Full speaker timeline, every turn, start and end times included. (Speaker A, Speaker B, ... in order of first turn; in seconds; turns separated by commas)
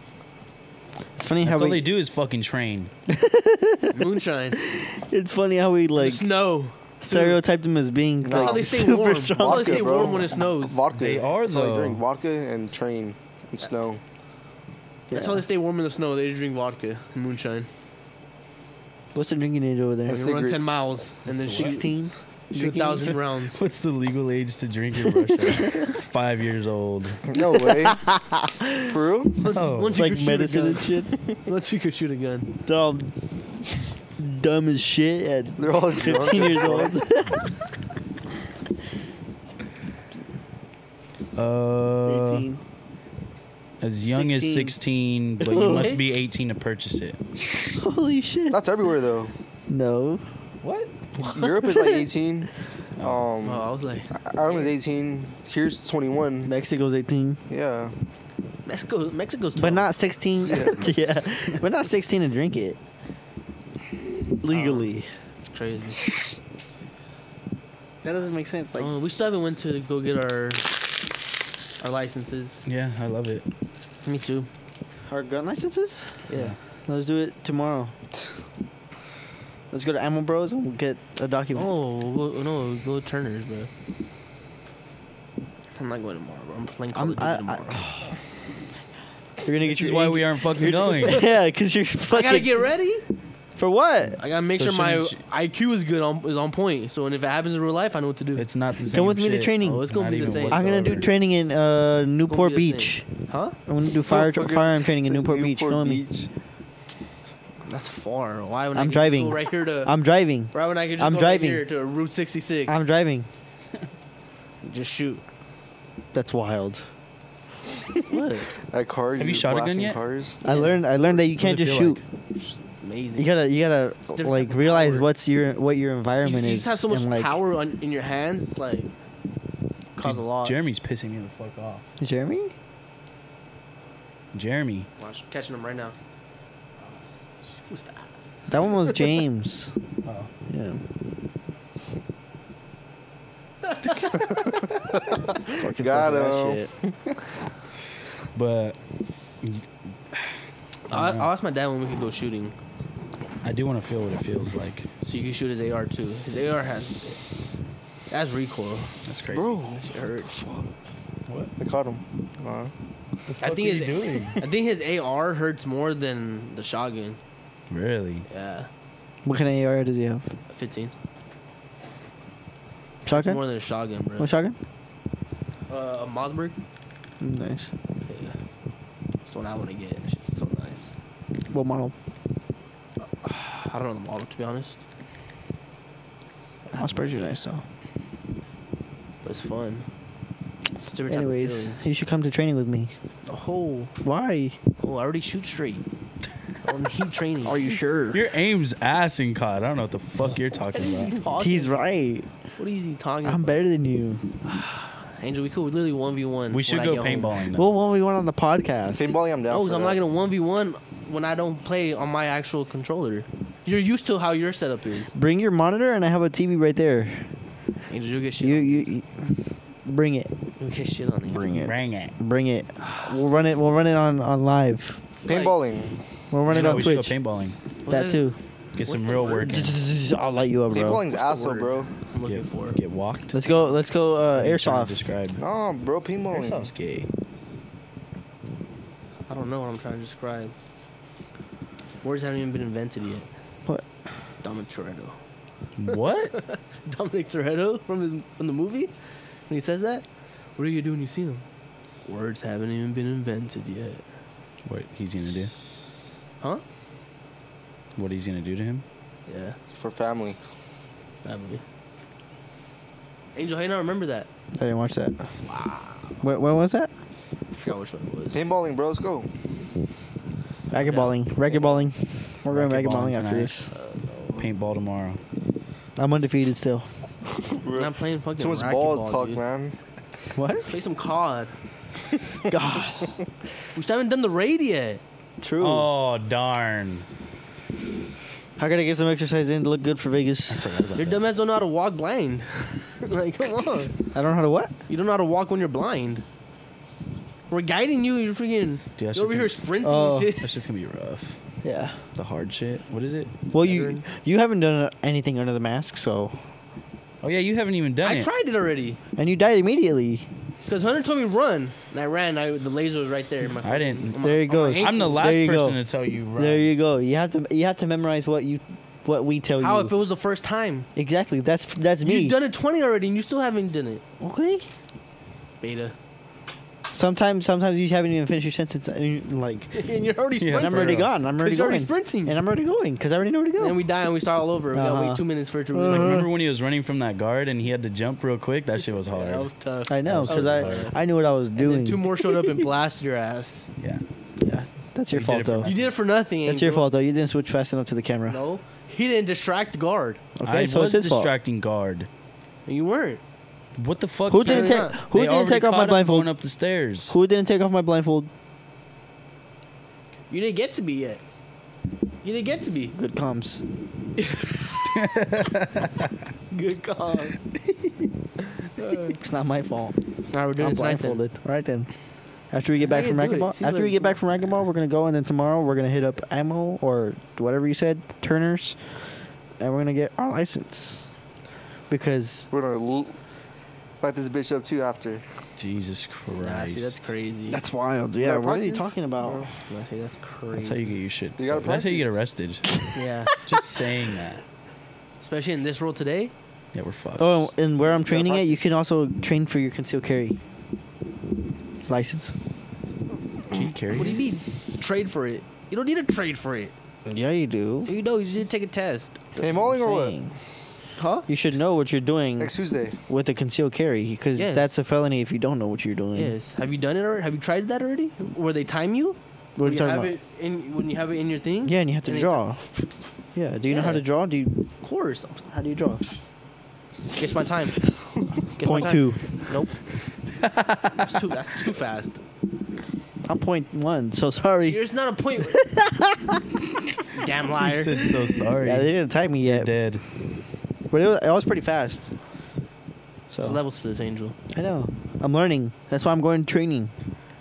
Speaker A: 1.2-1.9, Speaker B: 1.4-2.9, Speaker A: 3.1-6.3, Speaker C: 3.9-4.6, Speaker C: 6.0-7.4, Speaker A: 7.0-10.2, Speaker D: 8.2-8.7, Speaker C: 8.3-10.8, Speaker D: 9.4-14.0, Speaker B: 10.9-12.0, Speaker A: 15.1-15.4, Speaker C: 15.1-17.7, Speaker A: 19.1-20.3, Speaker D: 20.1-20.8, Speaker C: 20.1-21.9, Speaker A: 21.5-23.1, Speaker C: 22.5-23.6, Speaker B: 23.5-27.2, Speaker A: 25.5-25.9, Speaker D: 27.2-28.1, Speaker A: 27.4-28.8, Speaker D: 28.8-29.4, Speaker C: 29.4-32.5, Speaker B: 29.5-30.1, Speaker A: 29.9-31.1, Speaker A: 32.6-33.1, Speaker A: 34.2-37.4, Speaker D: 35.6-37.0, Speaker B: 41.4-42.5, Speaker A: 42.0-42.6, Speaker B: 43.8-47.2, Speaker A: 44.1-44.8, Speaker A: 45.4-46.0, Speaker C: 45.5-46.0, Speaker A: 47.7-48.6, Speaker D: 48.5-49.3, Speaker A: 49.7-50.2, Speaker C: 50.6-51.5, Speaker D: 51.2-56.5, Speaker C: 53.4-54.1, Speaker A: 56.5-57.4, Speaker D: 57.5-57.9, Speaker C: 58.7-59.9, Speaker A: 59.6-62.8, Speaker D: 60.5-60.9, Speaker A: 64.4-65.1, Speaker C: 64.5-64.9, Speaker C: 65.5-66.0, Speaker A: 68.0-68.9, Speaker C: 68.8-70.8, Speaker C: 71.8-72.7, Speaker B: 72.7-73.5, Speaker C: 74.0-74.5, Speaker A: 75.1-76.0, Speaker C: 76.3-76.5, Speaker A: 76.9-77.9, Speaker A: 79.7-81.7, Speaker C: 81.5-83.7, Speaker C: 85.8-87.9, Speaker A: 86.9-88.2, Speaker A: 89.4-92.6, Speaker B: 89.6-91.3, Speaker C: 92.1-93.0, Speaker A: 93.6-94.2, Speaker C: 94.2-98.5, Speaker B: 94.5-95.2, Speaker B: 98.4-101.1, Speaker A: 98.9-99.9, Speaker C: 99.6-100.7, Speaker A: 100.5-103.1, Speaker C: 102.3-103.6, Speaker A: 103.7-106.0, Speaker D: 104.1-106.3, Speaker C: 107.7-110.0, Speaker A: 108.8-111.6, Speaker C: 110.5-112.8, Speaker A: 112.7-113.3, Speaker C: 114.6-115.2, Speaker A: 116.1-116.8, Speaker C: 118.1-118.5, Speaker D: 118.7-120.4, Speaker B: 119.2-120.0, Speaker C: 120.4-120.8, Speaker A: 120.4-122.0, Speaker B: 121.2-122.0, Speaker C: 122.4-123.3, Speaker A: 123.2-127.4, Speaker C: 124.1-125.1, Speaker C: 126.2-128.9, Speaker C: 130.0-130.6, Speaker B: 130.0-131.9, Speaker A: 132.0-132.5, Speaker B: 134.3-134.9, Speaker C: 135.0-136.0, Speaker C: 136.8-139.0, Speaker A: 138.5-139.7, Speaker B: 140.1-140.3, Speaker A: 140.5-140.8, Speaker C: 143.6-144.2, Speaker D: 144.7-146.9, Speaker A: 145.5-146.7, Speaker B: 148.3-148.8, Speaker B: 149.4-150.3, Speaker C: 150.9-152.5, Speaker B: 150.9-151.3, Speaker B: 153.4-154.9, Speaker C: 155.0-157.2, Speaker C: 158.1-158.9, Speaker B: 159.1-159.5, Speaker D: 159.3-160.7, Speaker C: 159.7-160.4, Speaker D: 161.6-162.7, Speaker B: 163.3-164.4, Speaker C: 163.4-167.2, Speaker B: 167.7-168.2, Speaker C: 168.3-168.7, Speaker A: 169.2-170.3, Speaker C: 170.5-170.9, Speaker A: 173.1-173.4, Speaker C: 173.1-174.3, Speaker A: 174.2-174.6, Speaker C: 175.7-176.6, Speaker A: 177.2-177.7, Speaker C: 178.1-178.4, Speaker C: 179.3-180.9, Speaker A: 181.5-181.9, Speaker C: 183.2-184.8, Speaker C: 186.7-187.3, Speaker A: 186.7-187.6, Speaker C: 189.2-189.9, Speaker C: 190.9-191.8, Speaker A: 191.1-192.9, Speaker C: 193.3-193.9, Speaker A: 194.0-194.6, Speaker C: 194.8-195.8, Speaker C: 196.6-197.7, Speaker A: 197.4-198.2, Speaker B: 198.1-201.2, Speaker C: 200.7-201.8, Speaker A: 201.4-202.3, Speaker C: 202.6-203.6, Speaker A: 203.2-204.2, Speaker C: 204.4-207.4, Speaker B: 206.5-207.7, Speaker A: 207.5-209.2, Speaker D: 208.9-210.0, Speaker C: 209.5-215.1, Speaker A: 215.1-217.3, Speaker C: 217.9-218.8, Speaker A: 218.4-220.3, Speaker C: 220.6-221.4, Speaker A: 221.3-225.0, Speaker B: 221.5-222.1, Speaker C: 225.2-225.6, Speaker D: 225.2-226.0, Speaker A: 226.3-227.2, Speaker B: 226.5-227.6, Speaker C: 227.8-229.7, Speaker A: 227.9-228.4, Speaker B: 228.8-229.8, Speaker A: 229.4-231.0, Speaker D: 230.7-231.9, Speaker C: 230.8-232.8, Speaker B: 232.3-233.4, Speaker A: 233.3-235.0, Speaker B: 234.3-235.4, Speaker D: 235.4-236.7, Speaker B: 236.3-237.1, Speaker C: 239.3-240.5, Speaker C: 242.0-243.3, Speaker C: 244.4-245.2, Speaker B: 245.8-246.4, Speaker C: 245.9-248.9, Speaker C: 249.5-250.1, Speaker C: 250.6-251.4, Speaker C: 252.1-254.0, Speaker B: 254.7-255.5, Speaker B: 258.0-258.8, Speaker C: 259.3-259.6, Speaker D: 259.7-260.4, Speaker C: 261.2-261.6, Speaker C: 263.4-264.3, Speaker A: 264.6-265.2, Speaker C: 265.5-266.2, Speaker A: 266.2-266.9, Speaker C: 267.5-268.4, Speaker D: 268.3-269.3, Speaker A: 270.7-273.7, Speaker C: 270.8-271.9, Speaker B: 272.5-273.6, Speaker C: 273.7-274.5, Speaker B: 274.4-275.2, Speaker A: 276.0-276.9, Speaker D: 277.4-279.8, Speaker C: 277.7-279.4, Speaker A: 280.4-280.7, Speaker C: 280.6-281.5, Speaker A: 282.4-283.2, Speaker C: 283.8-285.0, Speaker A: 285.4-285.9, Speaker B: 285.6-287.1, Speaker A: 288.6-290.6, Speaker B: 290.5-291.3, Speaker C: 291.0-293.9, Speaker A: 294.1-294.7, Speaker C: 294.9-296.2, Speaker C: 297.5-300.5, Speaker B: 299.0-299.6, Speaker A: 299.8-300.3, Speaker B: 300.4-301.4, Speaker A: 301.6-302.0, Speaker B: 302.2-303.4, Speaker A: 303.5-306.4, Speaker C: 303.6-304.0, Speaker B: 307.2-308.3, Speaker C: 308.0-309.0, Speaker A: 309.2-310.3, Speaker C: 310.7-315.2, Speaker B: 313.6-316.7, Speaker A: 314.2-315.8, Speaker A: 316.4-319.9, Speaker C: 319.6-320.9, Speaker A: 320.9-322.4, Speaker C: 322.0-324.0, Speaker A: 324.2-324.7, Speaker C: 325.6-325.9, Speaker A: 326.9-329.8, Speaker C: 329.7-332.4, Speaker B: 330.4-331.1, Speaker A: 330.6-333.8, Speaker C: 333.6-336.2, Speaker A: 334.7-336.3, Speaker B: 335.9-339.5, Speaker C: 339.1-340.9, Speaker A: 339.9-342.0, Speaker B: 340.0-340.9, Speaker C: 341.5-343.7, Speaker B: 343.8-344.0, Speaker A: 344.4-345.7, Speaker B: 345.1-345.9, Speaker C: 345.6-346.9, Speaker A: 346.5-348.4, Speaker C: 348.3-350.2, Speaker A: 350.4-351.3, Speaker B: 350.4-352.1, Speaker C: 352.7-353.2, Speaker B: 353.8-357.1, Speaker A: 354.3-356.3, Speaker C: 354.4-355.0, Speaker A: 357.1-358.3, Speaker C: 360.3-361.2, Speaker C: 362.2-362.9, Speaker A: 362.9-363.6, Speaker C: 364.2-364.9, Speaker B: 364.9-365.9, Speaker C: 366.5-367.5, Speaker C: 368.6-369.2, Speaker A: 369.1-370.0, Speaker C: 370.3-371.2, Speaker A: 370.6-371.9, Speaker A: 372.5-379.0, Speaker C: 372.8-374.2, Speaker A: 379.6-381.1, Speaker A: 381.9-382.5, Speaker D: 382.5-383.2, Speaker D: 384.0-385.2, Speaker B: 385.6-387.1, Speaker C: 386.4-387.6, Speaker A: 387.5-389.5, Speaker D: 388.2-389.5, Speaker C: 389.5-390.9, Speaker B: 390.5-394.4, Speaker D: 391.4-392.1, Speaker C: 392.9-393.5, Speaker C: 395.2-396.3, Speaker B: 396.7-397.5, Speaker A: 397.2-400.4, Speaker D: 398.1-398.7, Speaker A: 401.9-402.3, Speaker B: 403.5-404.2, Speaker C: 403.9-406.7, Speaker A: 407.1-407.9, Speaker C: 407.9-409.2, Speaker A: 409.4-410.3, Speaker D: 409.4-410.2, Speaker C: 411.0-411.3, Speaker A: 411.3-412.5, Speaker D: 412.4-413.0, Speaker A: 413.1-416.3, Speaker C: 414.4-414.7, Speaker C: 416.1-422.4, Speaker A: 419.6-420.1, Speaker A: 421.6-422.6, Speaker A: 423.4-424.6, Speaker C: 423.7-424.0, Speaker C: 424.8-425.5, Speaker A: 425.5-426.2, Speaker C: 427.1-427.9, Speaker C: 428.6-429.8, Speaker A: 428.6-429.2, Speaker B: 430.4-431.1, Speaker C: 431.0-432.2, Speaker A: 433.2-434.8, Speaker C: 434.7-435.6, Speaker A: 435.5-436.4, Speaker C: 437.1-438.1, Speaker B: 437.6-440.0, Speaker A: 438.6-439.7, Speaker A: 440.9-442.1, Speaker A: 443.3-443.6, Speaker C: 443.4-444.4, Speaker A: 444.5-446.9